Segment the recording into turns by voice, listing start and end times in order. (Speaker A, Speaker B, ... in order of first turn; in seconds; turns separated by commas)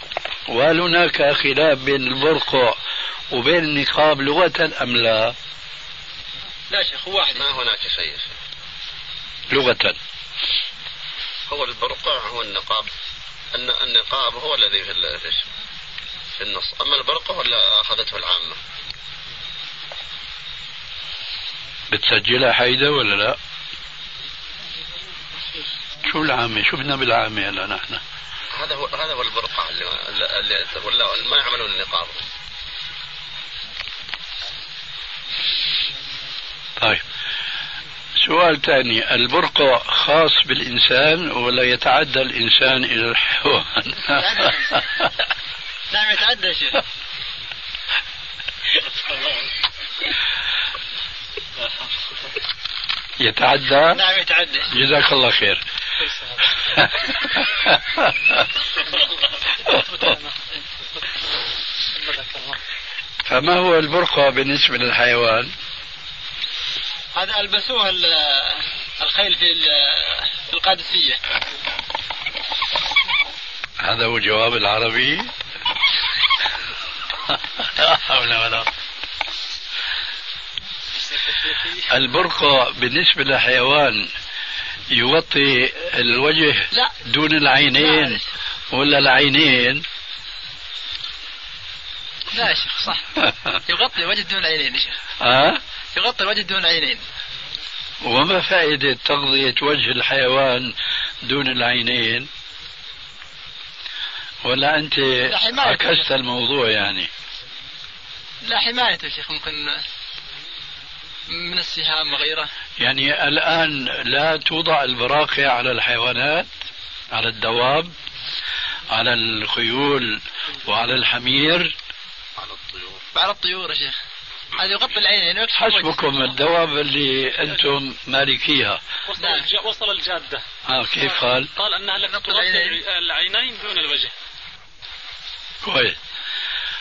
Speaker A: 0.5-2.8, Speaker A: 3.3-5.3, Speaker B: 6.7-7.4, Speaker C: 7.3-8.3, Speaker A: 9.5-10.0, Speaker C: 11.5-12.9, Speaker C: 13.5-15.4, Speaker C: 16.4-18.6, Speaker A: 21.9-23.4, Speaker A: 26.1-28.0, Speaker C: 28.5-32.2, Speaker A: 36.8-37.0, Speaker A: 38.2-44.2, Speaker B: 44.1-44.9, Speaker B: 45.9-46.8, Speaker A: 53.2-54.0, Speaker B: 53.9-54.7, Speaker A: 54.7-55.6, Speaker A: 56.7-58.4, Speaker A: 63.2-65.5, Speaker B: 67.1-71.2, Speaker A: 73.8-75.3, Speaker A: 77.3-78.7, Speaker A: 81.9-84.1, Speaker A: 84.9-88.2, Speaker B: 86.7-87.0, Speaker B: 87.7-88.3, Speaker A: 88.7-89.8, Speaker B: 92.3-93.1, Speaker B: 93.7-95.0, Speaker A: 95.2-95.6, Speaker B: 95.9-97.0, Speaker A: 98.0-102.3, Speaker A: 104.4-107.1, Speaker B: 105.2-106.1, Speaker B: 108.4-109.8, Speaker B: 111.3-112.5, Speaker A: 112.8-116.5, Speaker A: 117.1-117.9, Speaker A: 118.9-121.7, Speaker C: 122.4-123.0, Speaker B: 123.1-123.9, Speaker B: 124.6-126.1, Speaker A: 125.5-128.8, Speaker D: 129.1-130.4, Speaker B: 129.2-129.4, Speaker A: 130.7-131.5, Speaker D: 131.0-134.1, Speaker B: 132.1-132.8, Speaker A: 135.6-136.0